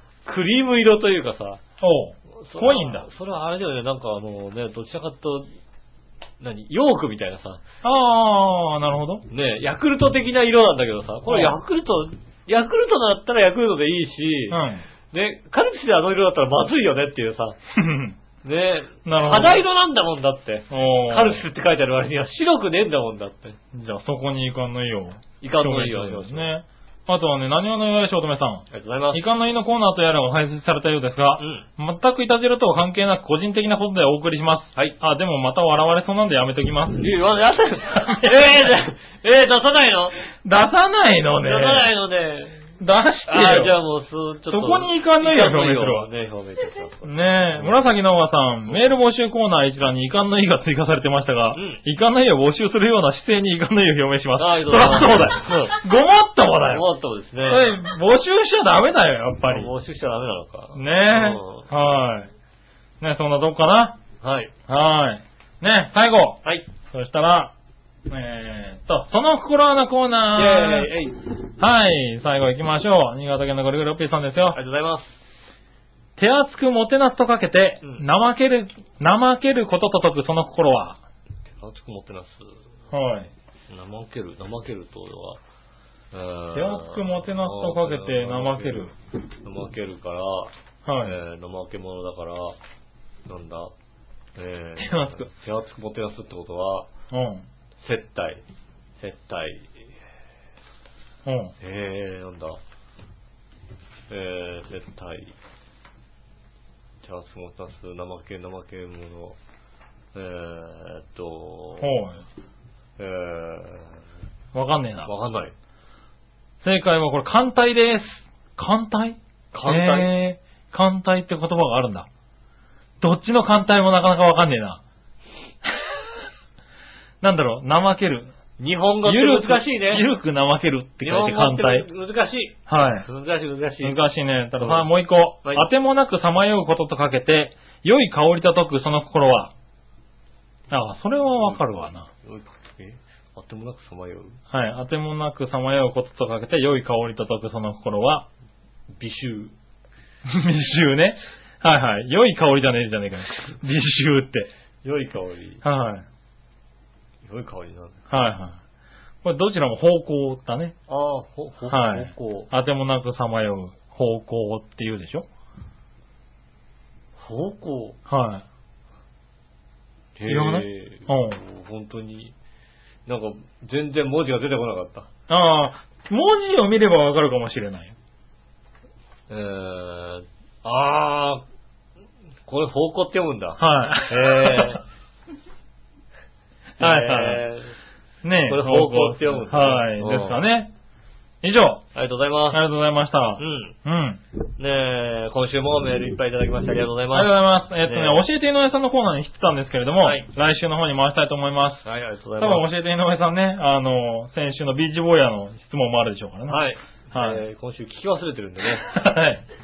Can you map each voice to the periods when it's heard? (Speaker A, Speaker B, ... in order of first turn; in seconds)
Speaker A: 0.2-1.6, 2.3-5.5, 6.4-7.6, 9.3-17.6, 18.4-23.6, 25.4-26.5, 28.7-29.2, 31.4-31.6, 37.0-40.2, 41.4-42.6, 43.3-47.8, 51.5-51.8, 54.4-55.8, 56.7-57.8, 59.5-61.7, 64.2-64.5, 70.3-71.2, 74.5-75.2, 81.5-82.4, 83.7-85.4, 86.1-88.9, 89.4-92.5, 93.3-93.7, 94.4-96.9, 97.8-98.4, 99.0-99.7, 101.6-102.6, 104.1-105.3, 107.0-109.4, 110.1-111.9, 113.0-114.0, 115.0-115.5, 119.5-120.1, 128.6-130.1, 131.0-134.0, 134.6-134.9, 141.4-144.4, 149.0-149.5, 154.8-155.6, 157.2-158.1, 160.9-162.5, 167.2-168.0, 170.2-172.3, 173.1-175.1, 179.3-181.4, 182.5-184.8, 186.8-187.8, 188.5-190.4, 191.9-192.6, 193.4-193.7, 194.6-197.3, 197.8-198.2, 200.0-200.3, 201.8-202.7, 206.5-208.9
Speaker B: 1.8-3.1, 7.8-9.2, 11.3-11.5, 14.5-14.8, 17.7-18.2, 19.1-19.6, 20.7-21.4, 23.7-37.1, 37.9-38.7, 40.4-41.9, 42.8-43.7, 44.5-46.1, 47.0-56.9, 57.5-59.7, 60.7-62.3, 63.0-64.0, 64.7-67.5, 68.1-74.6, 76.2-81.0, 82.9-83.3, 86.5-88.9, 90.8-91.1, 94.8-95.3, 97.1-97.4, 101.2-101.5, 111.8-112.2, 114.5-115.1, 116.6-122.1, 123.0-124.8, 127.2-128.3, 129.0-131.9, 132.7-133.1, 133.8-139.5, 140.7-142.1, 144.5-148.2, 150.2-154.5, 155.6-156.0, 158.1-158.6, 159.2-160.7, 161.7-165.2, 168.1-168.4, 170.3-171.4, 175.3-177.9, 183.6-184.8, 186.8-187.4, 188.2-190.7, 191.4-191.8, 192.5-194.2, 197.1-201.8, 202.4-206.6, 207.1-207.4, 208.9-209.4